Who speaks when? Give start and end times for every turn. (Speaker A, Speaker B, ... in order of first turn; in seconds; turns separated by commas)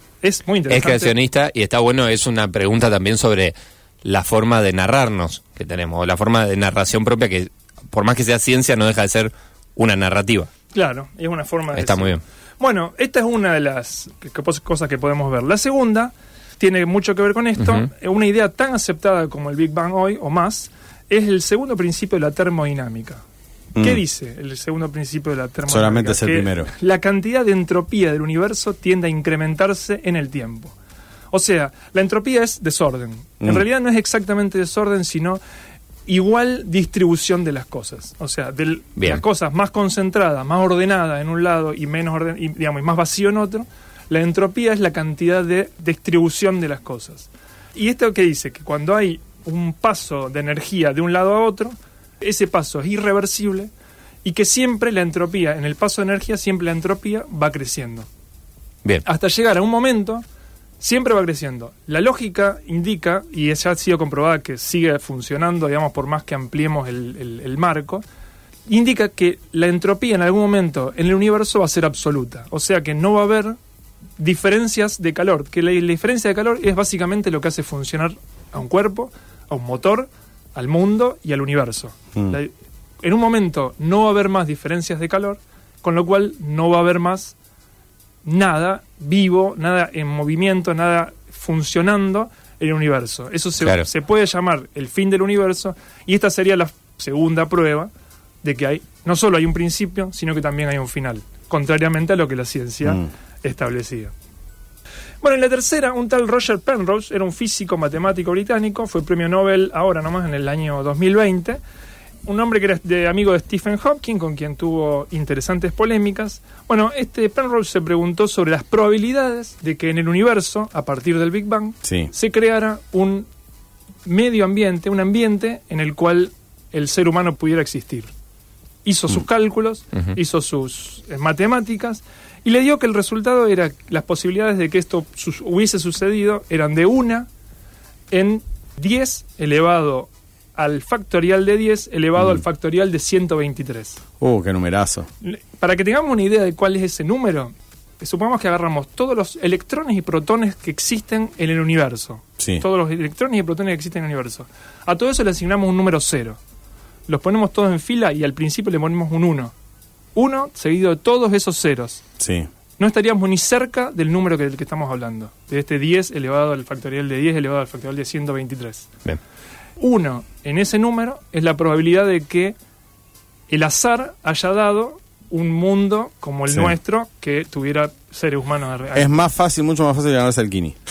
Speaker A: 0.2-1.1, Speaker B: 0.7-10.5, Speaker A: 10.7-23.2, Speaker B: 11.7-12.2, Speaker B: 17.6-17.9, Speaker C: 23.8-24.0, Speaker A: 23.8-30.7, Speaker C: 25.7-26.7, Speaker A: 31.3-35.4, Speaker A: 36.1-53.7, Speaker B: 39.0-39.2, Speaker A: 54.2-58.1, Speaker A: 59.0-60.2, Speaker A: 60.8-68.0, Speaker A: 68.7-73.6, Speaker A: 74.2-87.3, Speaker A: 88.2-97.9, Speaker B: 93.6-93.8, Speaker A: 98.4-104.1, Speaker A: 105.2-111.6, Speaker A: 112.2-123.3, Speaker C: 121.8-122.1, Speaker A: 124.0-128.1, Speaker A: 128.8-137.3, Speaker A: 138.1-144.0, Speaker C: 142.2-142.4, Speaker C: 144.2-145.1, Speaker A: 145.2-156.4, Speaker A: 157.1-159.5, Speaker A: 160.1-162.0, Speaker C: 162.2-162.5, Speaker A: 162.8-168.9, Speaker A: 169.8-172.6, Speaker A: 173.5-179.1, Speaker C: 176.5-176.8, Speaker C: 178.9-180.8